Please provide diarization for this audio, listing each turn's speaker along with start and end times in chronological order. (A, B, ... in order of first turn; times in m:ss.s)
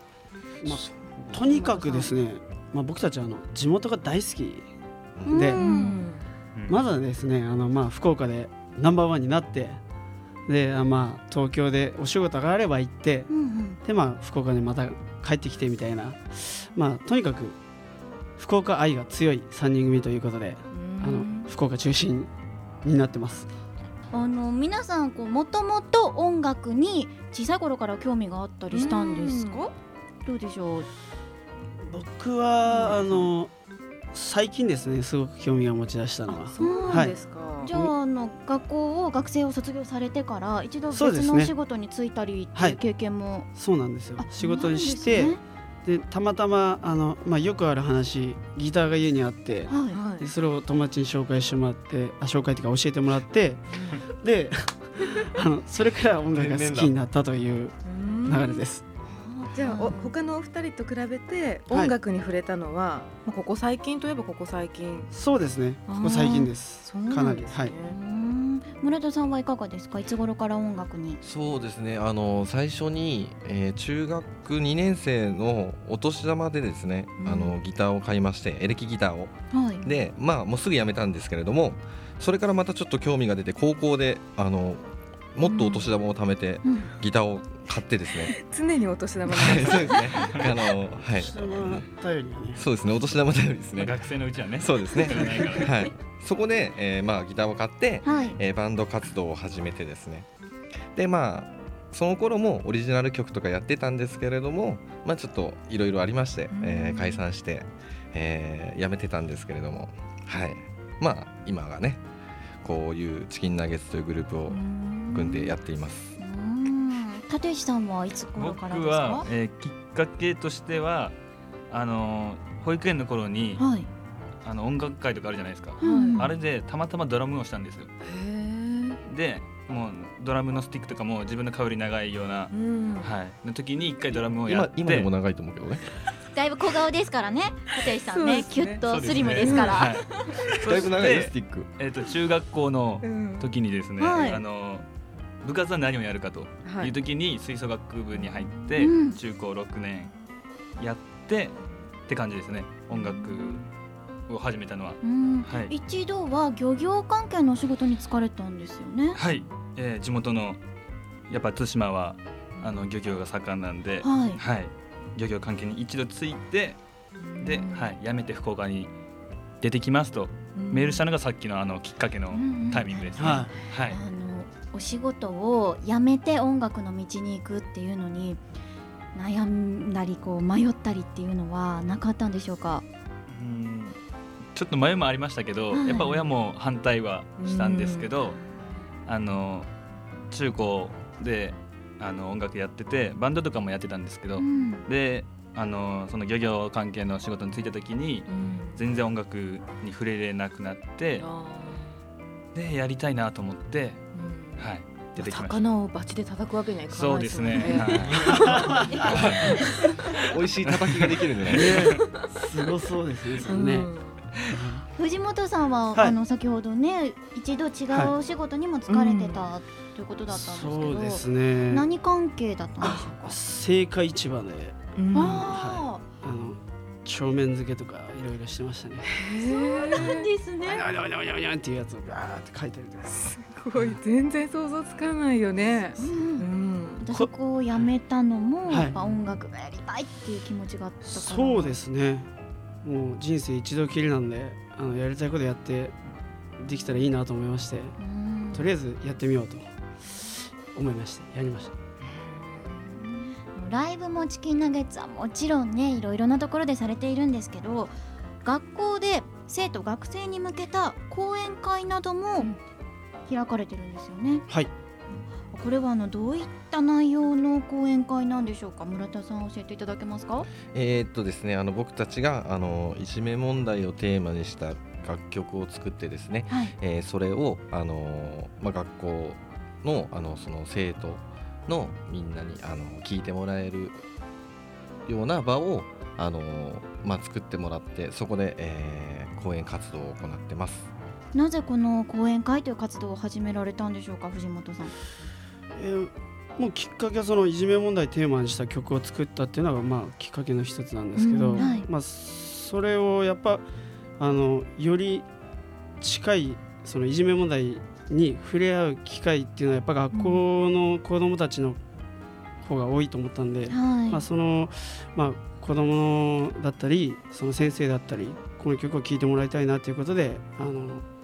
0:00.6-0:04.7 A
0:01.5-0:02.1 B
0:01.7-0:02.0 C
0:05.2-0:05.5 D
0:05.3-0:05.6 A
0:05.3-0:06.1 C
0:05.6-0:06.2 B
0:06.6-0:06.8 E
0:06.7-0:09.8 A
0:10.5-0:13.3 A
0:13.3-0:13.8 C
0:13.8-0:17.6 A
0:18.4-0:22.3 A
0:20.7-0:21.5 B
0:22.8-0:23.5 A
0:24.1-0:29.7 C
0:28.7-0:29.7 B
0:30.2-0:30.9 C
0:31.9-0:33.5 A
0:32.7-0:33.2 B
0:34.1-0:37.2 A
0:36.3-0:37.7 B
0:36.6-0:43.5 C
0:40.9-0:41.5 A
0:42.6-0:42.8 A
0:43.6-0:58.8 A
0:44.2-0:45.4 C
0:49.7-0:50.1 C
0:49.9-0:50.3 B
0:53.7-0:54.0 B
0:56.3-0:56.9 D
0:57.8-0:58.6 B
0:59.2-1:00.1 C
0:59.5-1:05.1 B
1:05.1-1:07.8 A
1:05.9-1:08.0 B
1:07.9-1:11.2 C
1:11.2-1:24.8 D
1:17.2-1:17.6 B
1:19.5-1:19.9 C
1:25.3-1:28.4 D
1:26.6-1:26.9 C
1:28.1-1:30.4 B
1:29.3-1:31.9 D
1:31.2-1:32.6 A
1:32.6-1:34.0 D
1:33.8-1:35.7 E
1:34.5-1:40.3 D
1:38.0-1:38.4 C
1:40.9-1:52.0 D
1:46.5-1:47.2 B
1:52.6-1:56.1 D
1:55.0-1:55.5 C
1:56.2-1:59.3 C
1:58.4-2:01.1 E
2:01.7-2:03.6 E
2:03.6-2:03.9 C
2:04.4-2:07.9 E
2:05.8-2:06.3 C
2:05.8-2:06.3 B
2:08.0-2:09.0 B
2:09.0-2:15.1 E
2:12.5-2:13.1 B
2:14.4-2:15.8 D
2:16.3-2:20.0 C
2:17.8-2:20.0 B
2:18.8-2:24.9 E
2:20.6-2:21.7 D
2:23.0-2:23.5 B
2:24.0-2:24.4 C
2:25.4-2:30.1 E
2:26.6-2:26.9 B
2:28.8-2:29.2 C
2:30.8-2:33.6 E
2:32.9-2:33.6 B
2:34.3-2:35.7 E
2:35.0-2:39.2 C
2:39.2-2:40.6 E
2:41.3-2:46.8 E
2:42.6-2:42.9 B
2:44.0-2:44.4 C
2:47.2-2:47.9 B
2:47.4-2:48.9 E
2:49.6-2:54.0 E
2:50.6-2:51.0 B
2:52.3-2:58.4 C
2:53.2-2:53.5 A
2:59.1-3:02.8 C
3:03.3-3:04.0 E
3:04.5-3:08.4 E
3:05.7-3:06.1 C
3:07.4-3:08.1 B
3:08.2-3:08.6 C
3:09.0-3:09.7 E
3:10.3-3:21.2 E
3:14.4-3:14.8 C
3:18.3-3:18.8 B
3:21.2-3:22.0 B
3:22.5-3:25.6 E
3:24.1-3:28.8 B
3:26.9-3:29.6 E
3:28.3-3:29.1 A
3:29.0-3:29.6 D
3:30.2-3:31.9 D
3:30.6-3:31.2 E
3:31.5-3:33.9 A
3:33.5-3:34.2 B
3:34.5-3:34.8 A
3:35.0-3:43.4 C
3:37.9-3:38.1 A
3:38.9-3:39.5 B
3:40.3-3:41.9 A
3:42.8-3:49.1 A
3:45.0-3:45.5 B
3:45.1-3:46.0 C
3:49.1-3:50.3 B
3:49.4-3:50.8 C
3:50.6-3:53.3 A
3:53.1-3:57.0 B
3:56.0-3:56.5 C
3:57.0-4:01.8 C
3:58.7-3:58.9 A
4:01.0-4:02.3 A
4:02.8-4:06.0 A
4:06.6-4:08.0 A
4:08.0-4:08.7 C
4:08.5-4:11.7 A
4:12.0-4:12.9 B
4:12.9-4:22.5 C
4:23.3-4:24.4 C
4:25.5-4:30.5 C
4:30.7-4:44.0 D
4:45.0-4:50.9 D
4:51.3-4:54.9 C
4:55.8-5:03.6 A
5:01.2-5:01.8 B
5:01.5-5:01.9 C
5:04.2-5:05.2 A
5:06.0-5:11.8 A
5:10.1-5:10.4 B
5:12.6-5:21.0 A
5:13.7-5:14.2 C